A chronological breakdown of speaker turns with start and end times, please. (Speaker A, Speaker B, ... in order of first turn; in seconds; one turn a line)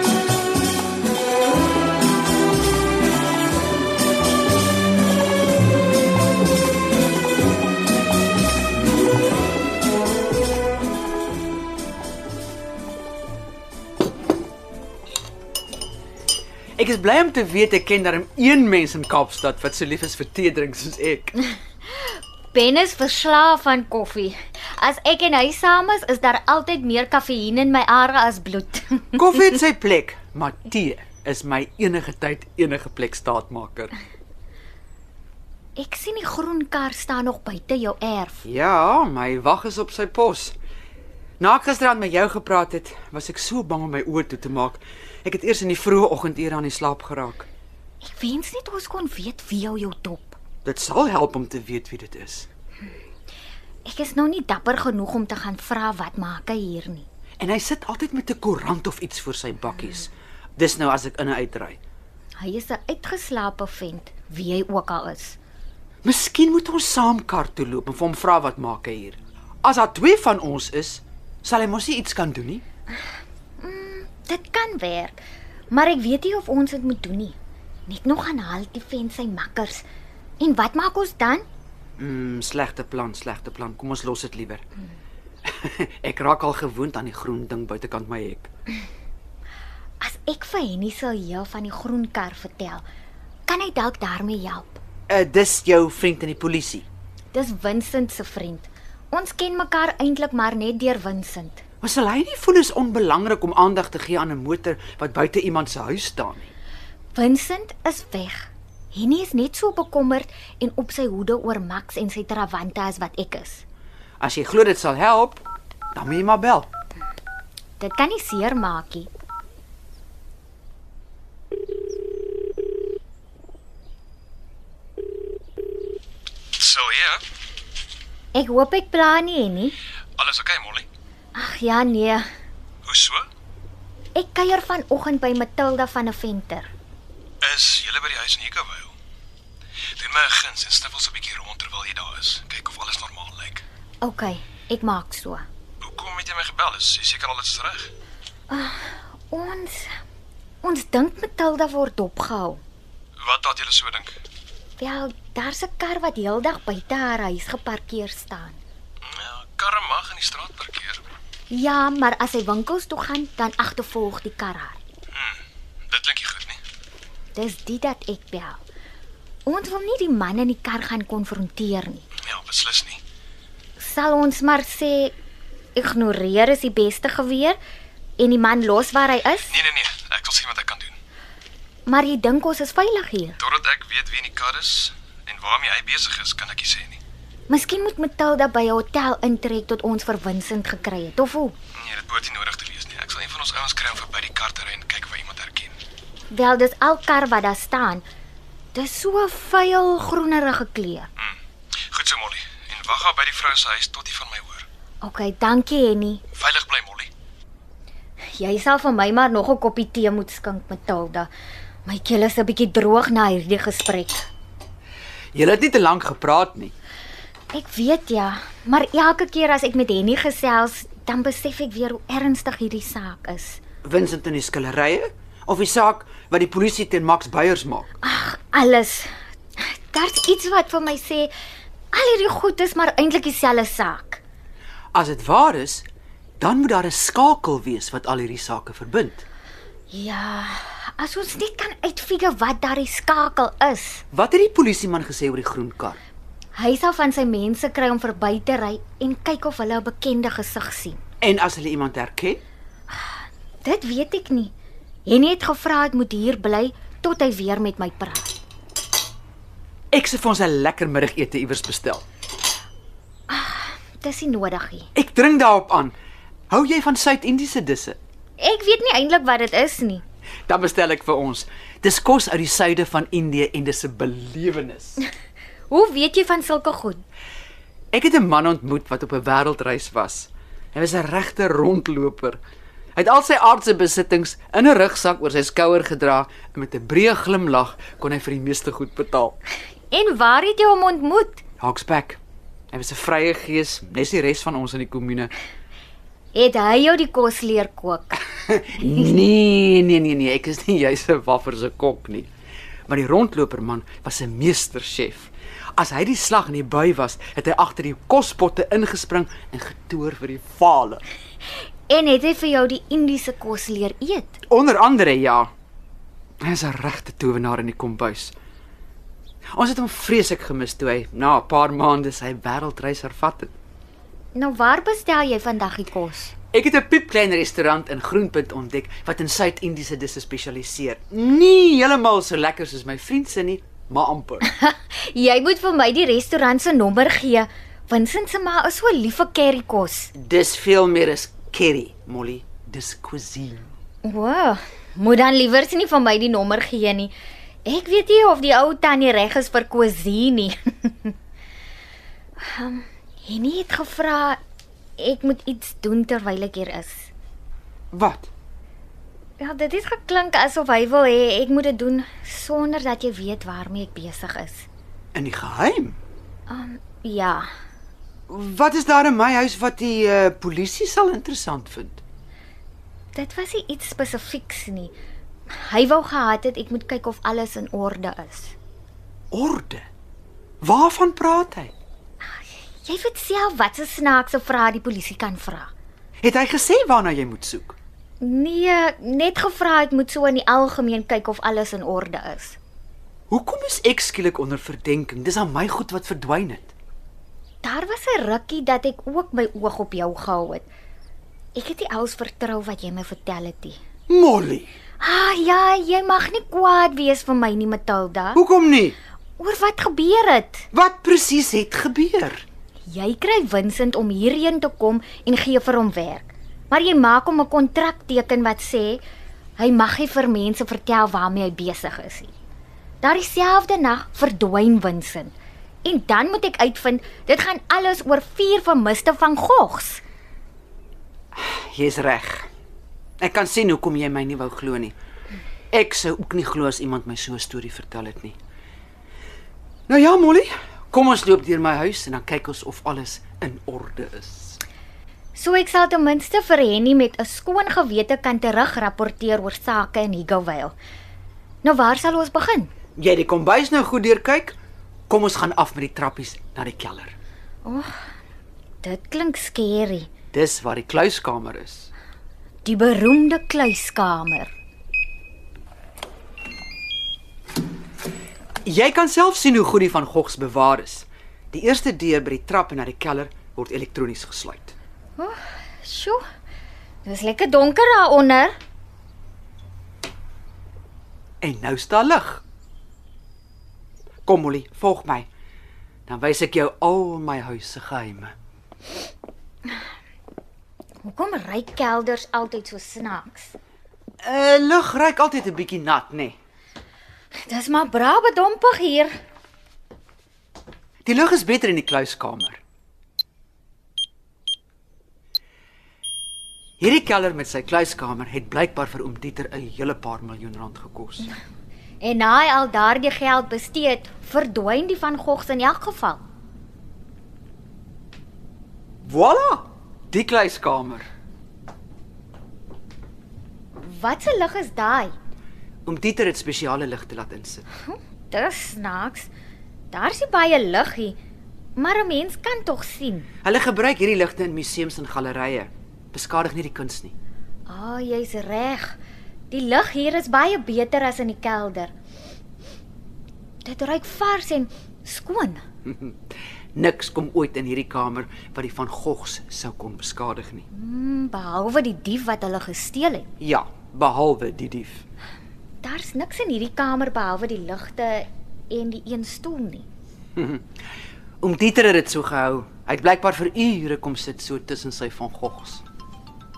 Speaker A: 16.8-21.3
Speaker B: 22.0-29.2
Speaker A: 29.1-33.9
Speaker B: 35.8-38.4
Speaker A: 38.4-40.5
Speaker A: 41.4-47.5
Speaker B: 48.0-50.4
Speaker A: 50.6-52.5
Speaker B: 53.8-57.1
Speaker A: 57.4-61.8
Speaker B: 62.4-65.4
Speaker A: 66.0-72.6
Speaker B: 73.6-75.2
Speaker B: 75.7-79.8
Speaker B: 80.4-81.5
Speaker A: 82.0-84.6
Speaker A: 85.4-88.5
Speaker B: 90.0-92.8
Speaker B: 93.5-94.8
Speaker A: 95.1-96.8
Speaker B: 97.3-101.6
Speaker A: 101.8-106.5
Speaker B: 107.1-113.6
Speaker A: 114.2-116.7
Speaker B: 117.8-119.1
Speaker C: 126.5-127.2
Speaker B: 128.3-129.8
Speaker C: 130.2-130.9
Speaker B: 131.3-132.2
Speaker C: 132.8-133.3
Speaker B: 134.1-136.7
Speaker C: 137.4-138.9
Speaker C: 139.9-143.6
Speaker B: 144.0-145.4
Speaker C: 145.8-147.9
Speaker B: 148.5-150.0
Speaker B: 150.6-152.6
Speaker C: 153.2-154.2
Speaker B: 154.8-158.6
Speaker C: 159.0-161.0
Speaker B: 161.5-164.8
Speaker C: 165.1-166.6
Speaker B: 167.3-168.6
Speaker B: 169.4-172.1
Speaker C: 172.2-173.0
Speaker B: 173.8-175.1
Speaker B: 175.8-177.6
Speaker B: 178.2-179.5
Speaker C: 179.5-180.9
Speaker B: 181.8-183.4
Speaker C: 183.4-187.0
Speaker B: 187.5-191.5
Speaker C: 191.7-195.8
Speaker B: 196.3-198.0
Speaker B: 198.7-201.1
Speaker C: 201.9-204.7
Speaker B: 205.0-206.2
Speaker C: 206.3-207.1
Speaker B: 208.3-211.3
Speaker B: 211.8-214.3
Speaker A: 215.3-216.7
Speaker B: 217.5-223.6
Speaker A: 223.8-227.9
Speaker B: 228.0-231.3
Speaker B: 231.9-234.2
Speaker A: 234.9-235.8
Speaker A: 236.4-239.2
Speaker B: 239.9-244.0
Speaker A: 244.1-246.0
Speaker B: 246.5-251.0
Speaker A: 251.2-252.4
Speaker B: 252.9-254.5
Speaker B: 255.0-258.4
Speaker A: 259.9-262.0
Speaker B: 263.3-264.9
Speaker A: 264.9-265.9
Speaker A: 266.5-268.0
Speaker B: 268.4-270.0
Speaker A: 270.5-275.0
Speaker B: 275.7-277.0
Speaker A: 277.9-282.4
Speaker A: 282.9-289.4
Speaker B: 289.9-291.4
Speaker A: 291.6-292.2
Speaker A: 292.7-295.3
Speaker B: 296.3-298.2
Speaker A: 298.5-302.3
Speaker A: 302.9-311.0
Speaker B: 311.9-314.4
Speaker A: 314.5-315.5
Speaker A: 316.4-318.3
Speaker A: 319.5-323.5
Speaker B: 324.3-326.3
Speaker A: 326.5-334.5
Speaker B: 334.4-340.1
Speaker A: 340.1-343.7
Speaker B: 344.0-347.1
Speaker B: 347.6-351.1
Speaker B: 352.4-354.4
Speaker B: 355.0-357.1
Speaker A: 357.9-358.3
Speaker B: 359.4-364.7
Speaker A: 365.1-366.0
Speaker B: 366.5-367.5
Speaker A: 368.3-372.0
Speaker B: 373.1-374.9
Speaker B: 375.5-378.5
Speaker A: 379.3-379.8
Speaker A: 380.6-381.7
Speaker B: 382.4-385.7
Speaker A: 386.2-387.8
Speaker B: 388.2-392.6
Speaker A: 393.3-396.7
Speaker B: 397.6-400.6
Speaker B: 401.5-403.8
Speaker A: 404.1-404.7
Speaker B: 405.0-408.4
Speaker A: 408.3-409.0
Speaker B: 409.4-410.7
Speaker A: 410.7-412.4
Speaker B: 412.9-419.0
Speaker B: 419.6-422.3
Speaker B: 423.0-430.0
Speaker A: 431.3-432.5
Speaker A: 433.2-434.9
Speaker A: 435.7-438.4
Speaker A: 439.9-444.6
Speaker B: 445.3-450.8
Speaker B: 451.6-452.7
Speaker A: 452.9-454.5
Speaker A: 455.1-457.1
Speaker B: 457.6-458.0
Speaker B: 458.8-460.1
Speaker A: 460.3-461.9
Speaker B: 462.6-464.5
Speaker A: 468.6-474.7
Speaker B: 475.2-476.2
Speaker B: 477.0-478.5
Speaker A: 481.4-482.4
Speaker A: 484.2-485.3
Speaker A: 486.1-488.3
Speaker B: 491.0-493.6
Speaker A: 494.2-496.4
Speaker B: 497.4-499.1
Speaker A: 501.0-502.6
Speaker A: 506.8-511.3
Speaker B: 512.0-516.2
Speaker A: 519.0-521.1
Speaker B: 523.8-525.1
Speaker A: 525.8-527.6
Speaker B: 527.8-529.3
Speaker B: 529.9-531.2
Speaker B: 531.8-533.3
Speaker A: 533.4-537.1
Speaker B: 537.7-539.0
Speaker B: 539.5-541.9
Speaker B: 543.6-545.6
Speaker A: 545.8-550.6
Speaker B: 550.7-553.3
Speaker A: 553.4-555.0
Speaker B: 555.8-559.9
Speaker A: 560.4-560.6
Speaker A: 561.4-565.8